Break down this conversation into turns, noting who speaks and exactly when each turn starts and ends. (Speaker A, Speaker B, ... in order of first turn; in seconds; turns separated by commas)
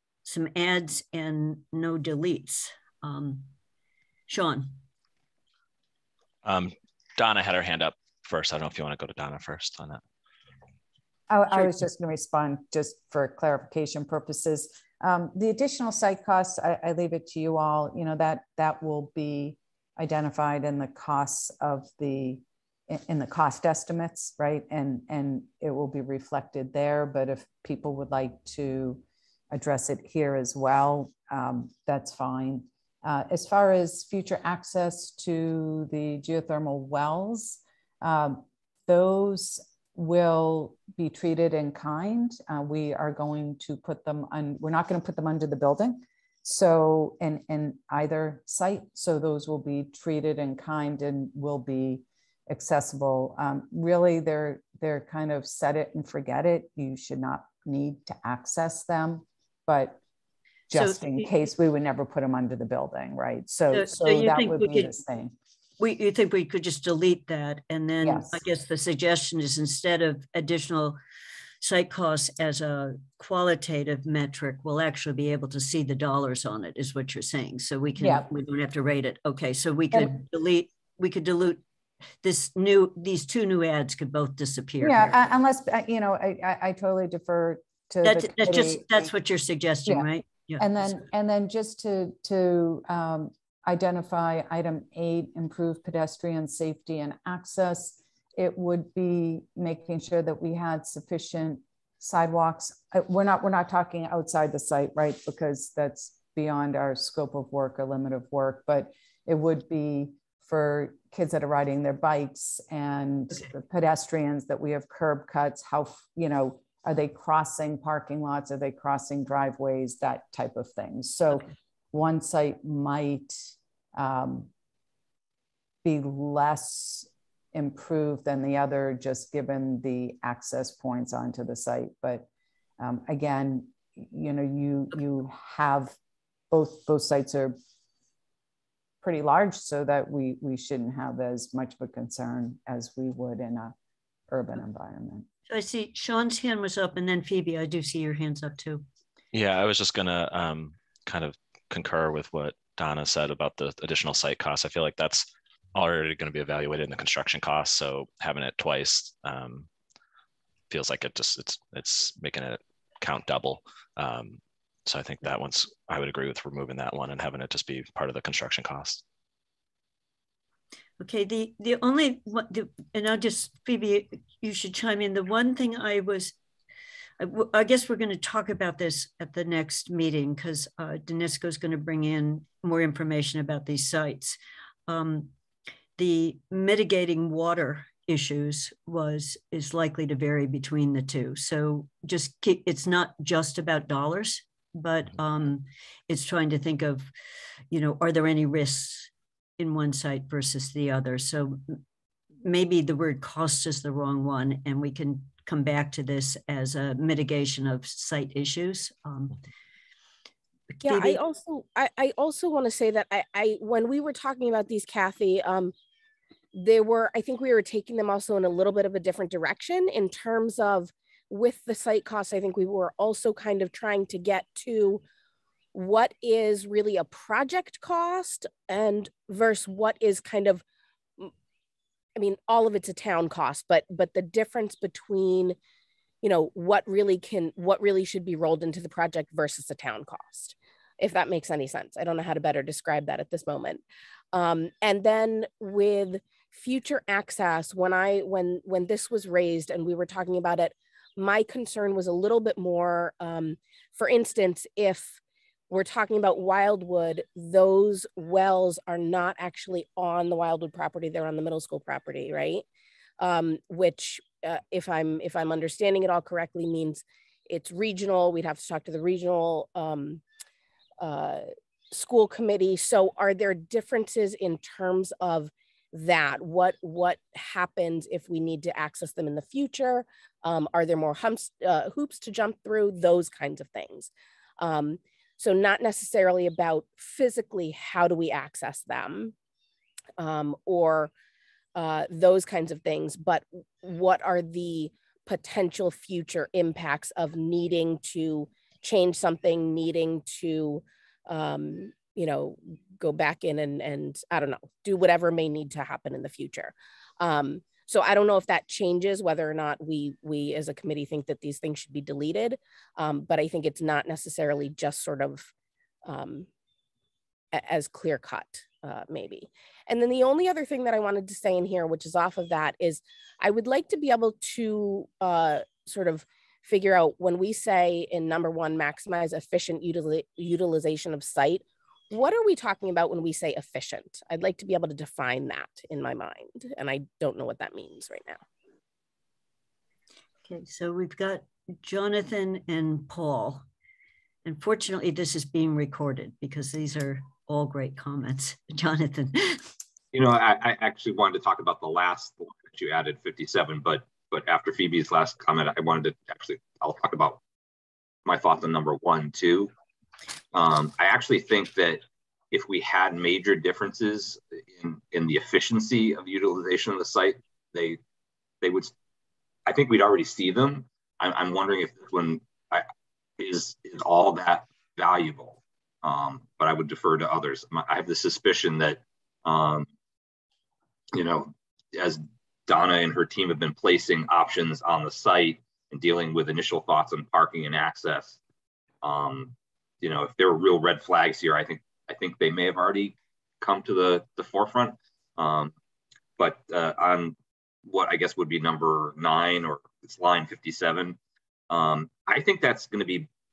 Speaker A: 0.2-3.5, Speaker A: 4.3-4.8, Speaker B: 6.4-10.0, Speaker C: 11.3-60.0, Speaker C: 60.7-65.3, Speaker A: 60.7-61.3, Speaker A: 63.7-65.0, Speaker A: 65.8-71.0, Speaker C: 68.0-68.4, Speaker A: 71.6-81.6, Speaker C: 78.0-78.3, Speaker A: 82.2-85.2, Speaker C: 84.8-89.1, Speaker A: 88.0-90.7, Speaker C: 89.9-124.5, Speaker C: 125.8-136.0, Speaker C: 136.5-137.6, Speaker C: 139.0-143.8, Speaker C: 144.3-145.3, Speaker A: 145.5-148.8, Speaker B: 149.3-159.7, Speaker B: 160.7-169.0, Speaker A: 171.0-176.3, Speaker A: 177.2-185.3, Speaker A: 186.0-197.1, Speaker A: 197.7-201.8, Speaker A: 202.4-209.3, Speaker A: 210.7-211.2, Speaker D: 210.8-215.7, Speaker D: 216.5-225.0, Speaker D: 225.7-230.6, Speaker D: 232.2-235.6, Speaker D: 236.2-255.2, Speaker D: 255.7-262.6, Speaker D: 263.2-270.2, Speaker D: 271.0-289.3, Speaker D: 290.2-291.1, Speaker D: 291.8-315.5, Speaker D: 316.1-316.5, Speaker D: 317.5-338.4, Speaker A: 340.5-343.6, Speaker A: 344.4-349.6, Speaker E: 350.1-357.4, Speaker E: 358.3-359.7, Speaker E: 360.5-368.0, Speaker E: 368.6-368.9, Speaker E: 369.7-372.9, Speaker E: 373.4-379.9, Speaker E: 381.1-388.4, Speaker E: 389.0-395.7, Speaker E: 396.4-401.2, Speaker E: 401.7-403.3